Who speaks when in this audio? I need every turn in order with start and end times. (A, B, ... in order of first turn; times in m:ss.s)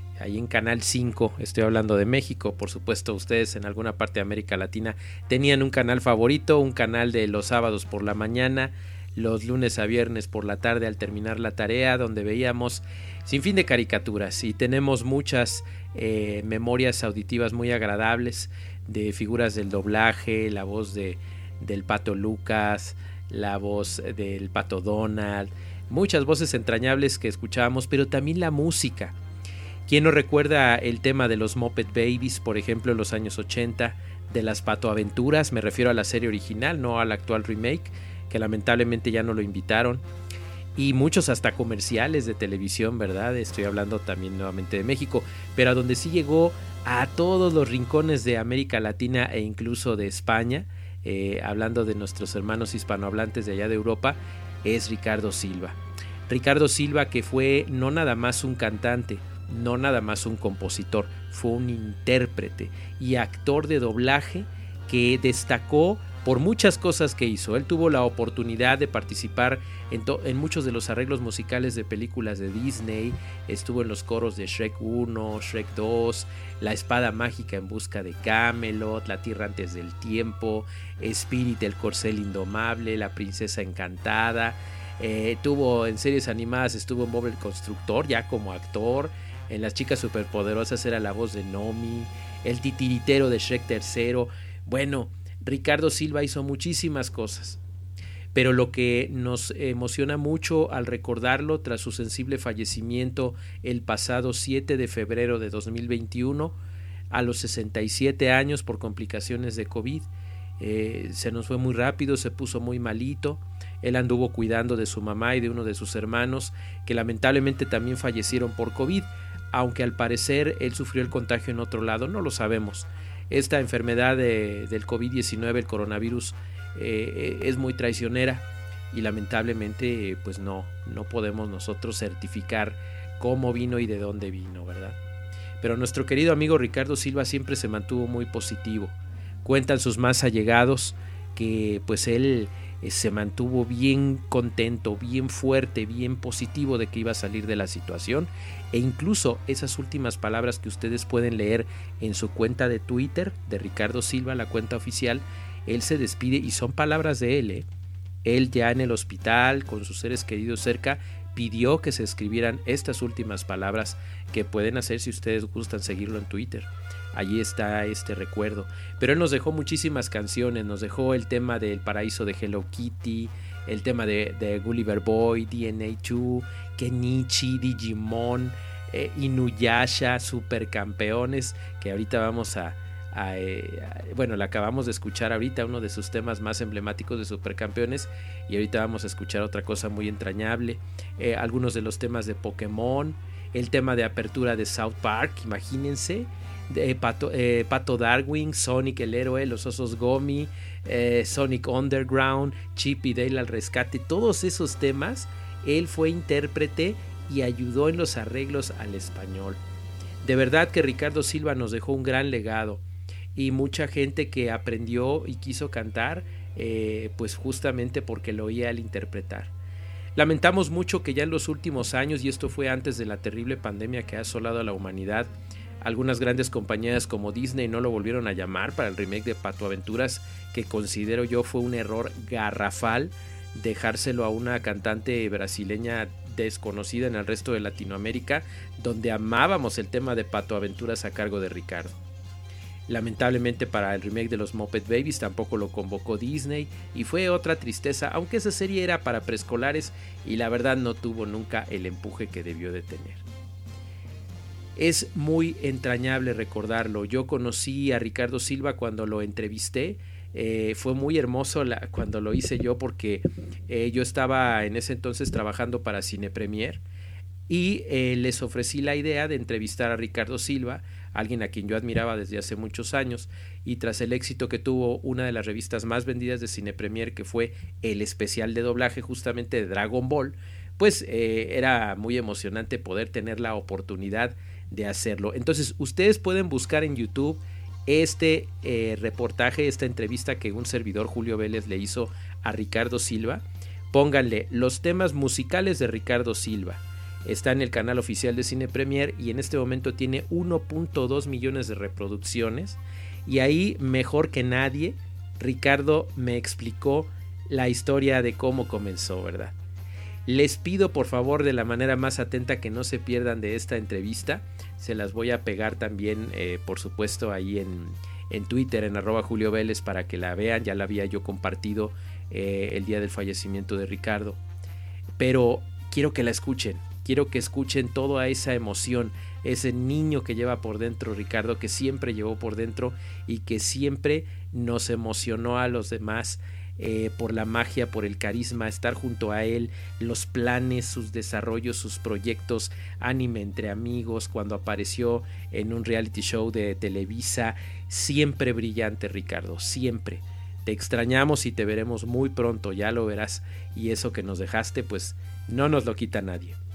0:00.2-0:29.2 A
0:29.9-0:40.0 A
0:40.8-0:55.8 A
0:56.3-1:37.6 A
1:38.3-1:46.6 A
1:47.1-1:50.1 A
1:50.6-2:15.0 A
2:15.6-2:37.7 A
2:38.2-3:29.6 A
3:30.2-3:32.8 A
3:33.4-3:39.5 A
3:40.2-3:45.3 A
3:45.8-4:02.0 A
4:02.9-4:13.2 A
4:14.8-4:26.8 A
4:27.5-5:09.5 A
5:10.3-5:24.4 A
5:25.2-5:56.6 A